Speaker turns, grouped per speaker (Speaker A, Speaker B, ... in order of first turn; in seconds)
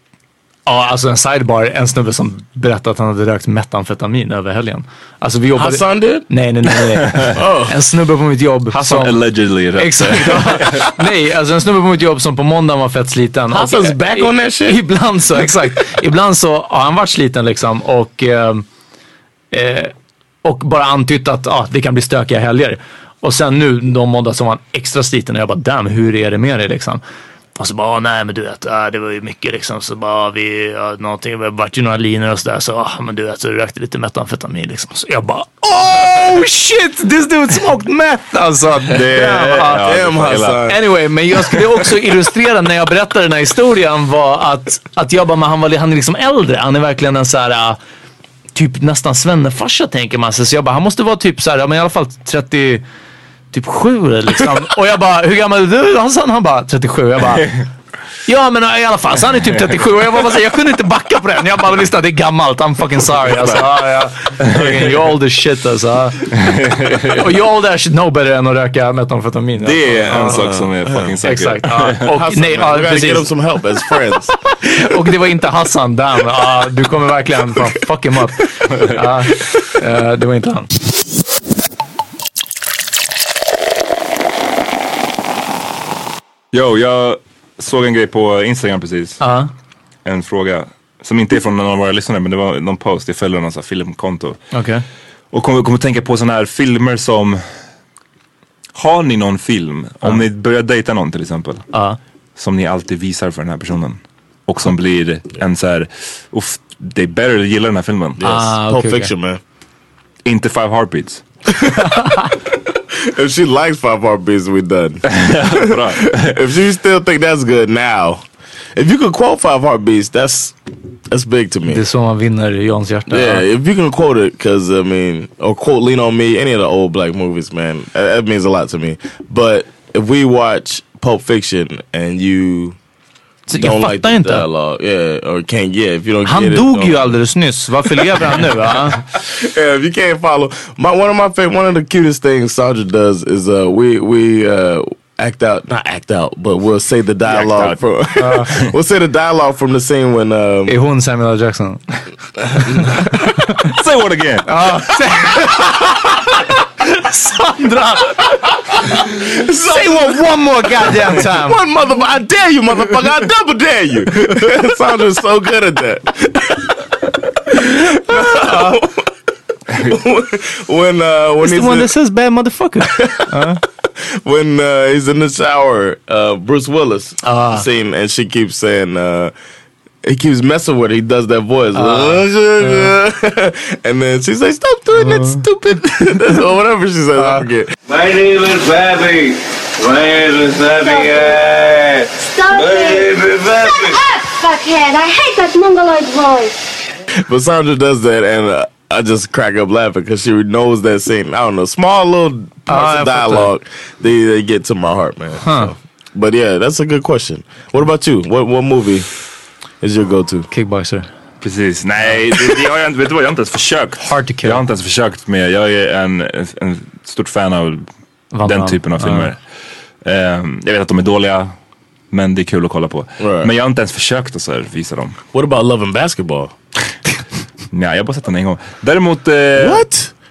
Speaker A: 0.7-9.2, 9.8-18.6, 19.5-19.9, 20.4-27.0, 27.6-39.9, 40.7-47.8, 48.5-52.8, 53.5-57.5, 58.2-66.4, 67.0-70.5, 71.2-73.3, 74.6-80.7, 89.2-89.5, 94.5-94.8, 101.7-102.0, 108.2-109.1, 111.8-112.3, 121.7-123.5, 133.5-134.4, 136.2-139.0, 148.2-148.5, 150.7-151.9, 152.6-153.5, 154.4-158.3, 159.5-161.6, 167.6-168.8, 171.4-173.6, 177.2-177.6, 181.7-182.9, 184.9-185.4, 186.0-186.4, 187.2-187.4, 202.7-203.5, 205.4-205.7, 210.5-211.1, 214.0-214.6, 218.3-219.3
Speaker B: 5.5-6.3, 7.3-7.8, 13.5-14.8, 39.1-40.8, 70.3-71.2, 72.1-74.3, 108.2-109.4, 113.0-118.2, 118.7-120.5, 121.1-121.8, 123.1-132.8, 133.5-137.2, 139.1-150.7, 159.0-166.8, 167.5-169.1, 169.8-171.9, 172.9-173.3, 174.0-179.3, 180.0-187.7, 197.1-209.1, 209.8-210.5, 223.2-223.5, 225.3-226.5, 229.6-230.1
Speaker C: 8.7-10.9, 38.9-40.6, 57.4-57.6, 63.3-63.6, 64.4-65.0, 66.3-67.2, 69.6-72.0, 86.5-89.2, 90.0-94.4, 95.3-97.4, 98.7-101.6, 102.3-108.2, 110.2-111.2, 115.0-116.3, 147.2-147.8, 153.6-154.5, 211.4-217.9, 218.4-219.4, 220.0-221.5, 222.1-225.2, 227.7-229.8
Speaker D: 187.9-194.0
Speaker E: 190.8-191.2, 192.2-196.5